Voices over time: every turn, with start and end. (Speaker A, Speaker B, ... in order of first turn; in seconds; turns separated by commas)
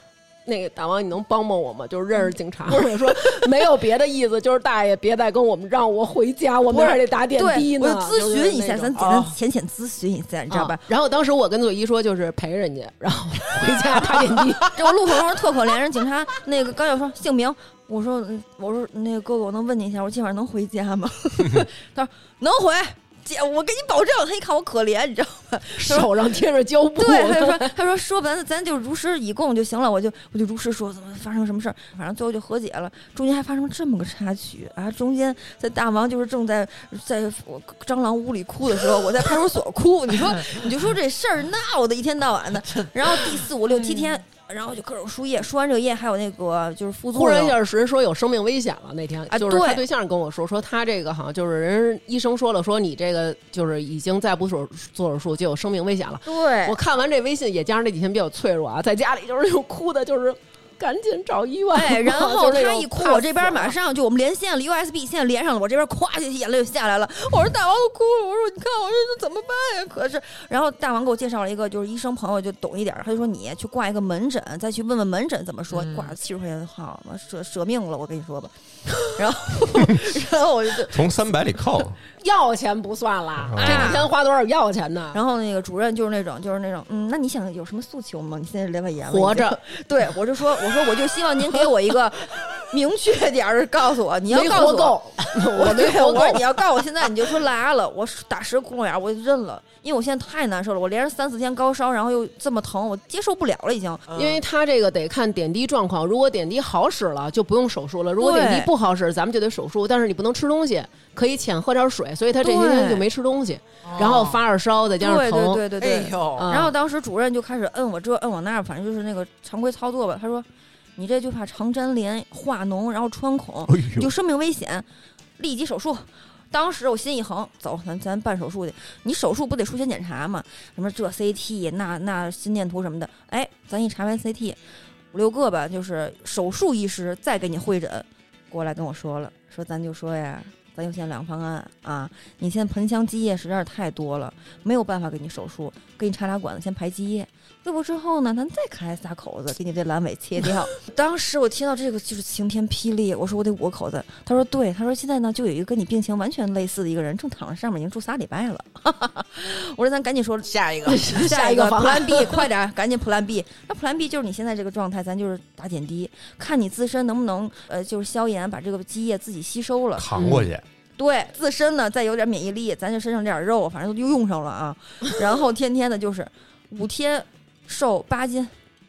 Speaker A: 0.5-9.0, Speaker B: 2.2-3.5, Speaker B: 6.7-10.8, Speaker C: 9.0-9.4, Speaker A: 10.5-14.7, Speaker B: 14.8-26.1, Speaker A: 25.8-27.7, Speaker B: 27.0-47.6, Speaker A: 47.1-63.8, Speaker B: 49.3-49.8, Speaker B: 56.3-56.8, Speaker B: 61.7-78.5, Speaker C: 75.7-76.1, Speaker B: 79.0-81.0, Speaker D: 80.9-82.0, Speaker A: 82.2-85.2, Speaker D: 83.4-84.0, Speaker B: 83.6-84.1, Speaker B: 85.1-95.0, Speaker A: 89.1-89.6, Speaker A: 94.3-96.4, Speaker B: 95.6-104.1, Speaker C: 104.1-104.4, Speaker A: 104.2-115.6, Speaker B: 108.2-108.7, Speaker B: 112.4-113.1, Speaker C: 113.8-114.4, Speaker B: 115.0-120.5, Speaker C: 115.8-116.5, Speaker A: 116.4-116.7, Speaker B: 121.0-124.9, Speaker D: 123.7-124.1, Speaker B: 125.4-134.6, Speaker B: 135.1-170.2, Speaker C: 160.4-161.1, Speaker A: 160.9-162.5, Speaker D: 170.0-170.7, Speaker A: 170.2-170.5, Speaker B: 171.0-178.5